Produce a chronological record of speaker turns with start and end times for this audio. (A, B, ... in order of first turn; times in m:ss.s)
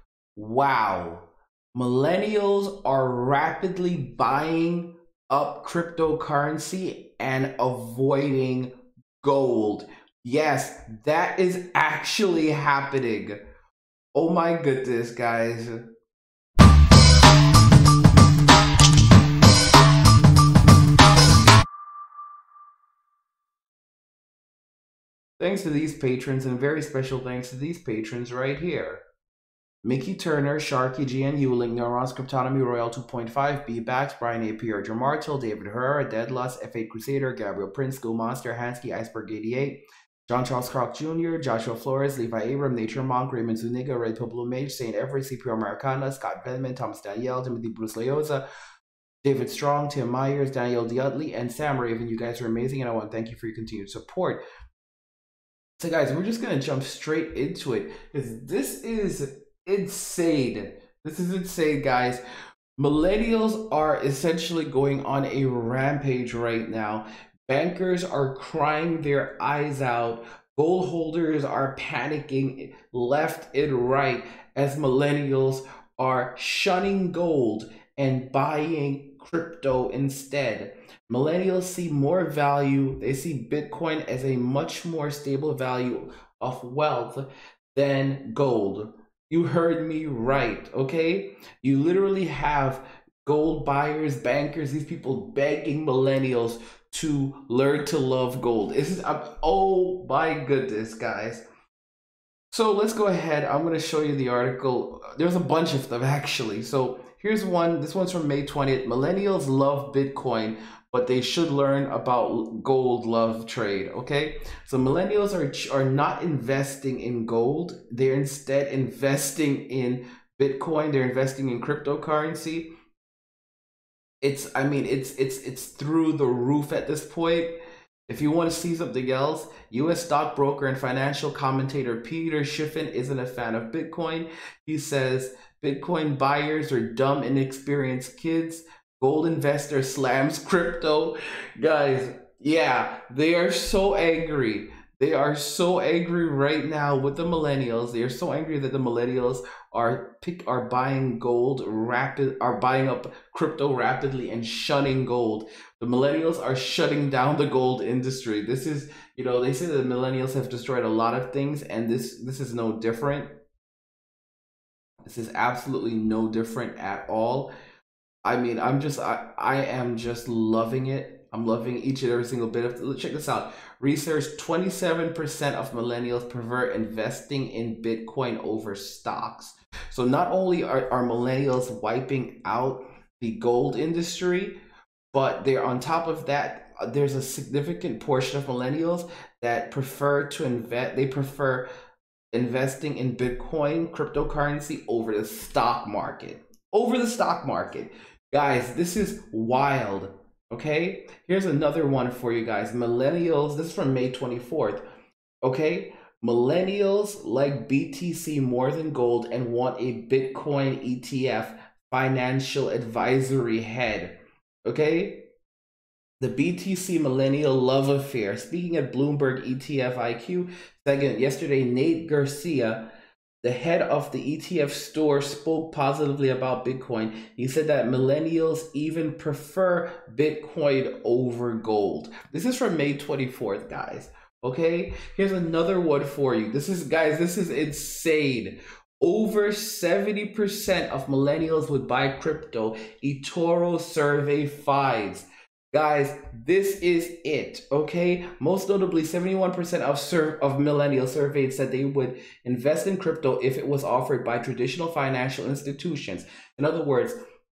0:00.4-0:13.4 A
0:14.2-0:15.9 A
0:25.4-0:29.0 A
0:29.8-0:48.4 A
0:49.2-0:54.4 A
0:55.8-1:02.2 A
1:02.8-1:41.5 A
1:42.5-2:02.7 A
2:04.2-2:43.4 A
2:45.1-2:47.5 A
2:48.2-3:04.6 A
3:05.1-3:11.7 A
3:12.3-3:24.8 A
3:25.4-3:35.3 A
3:36.2-3:42.9 A
3:43.4-4:17.2 A